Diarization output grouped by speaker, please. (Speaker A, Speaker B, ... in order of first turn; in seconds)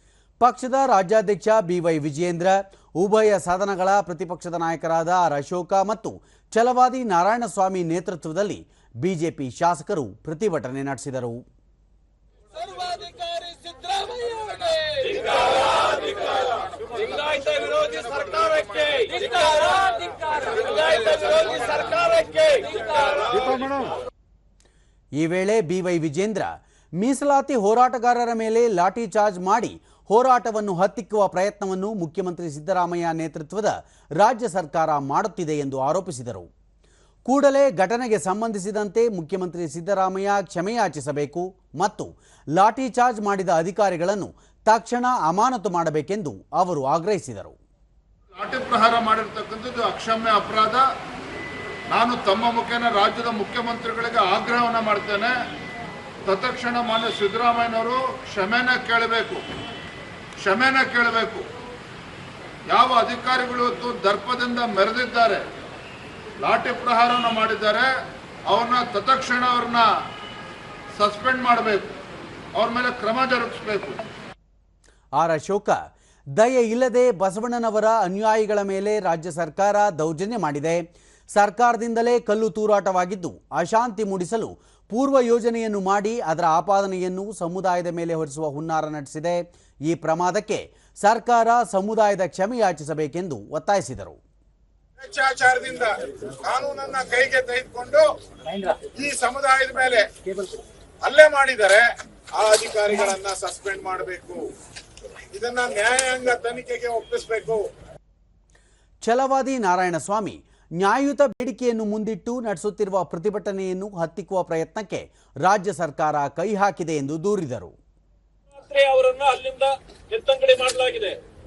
Speaker A: 0.4-11.4, 25.2-36.5, 37.3-47.5, 75.2-75.8, 76.4-94.2, 109.0-117.7
Speaker B: 12.6-23.8, 118.5-121.2
Speaker C: 48.3-50.9, 51.9-55.4, 56.3-59.5, 60.4-61.5, 62.7-65.5, 66.4-67.9, 68.5-69.9, 70.9-71.9, 72.5-74.0, 98.5-98.8, 100.3-100.6
Speaker D: 95.0-98.0, 98.8-100.0, 101.0-101.8, 102.3-104.4, 105.3-107.7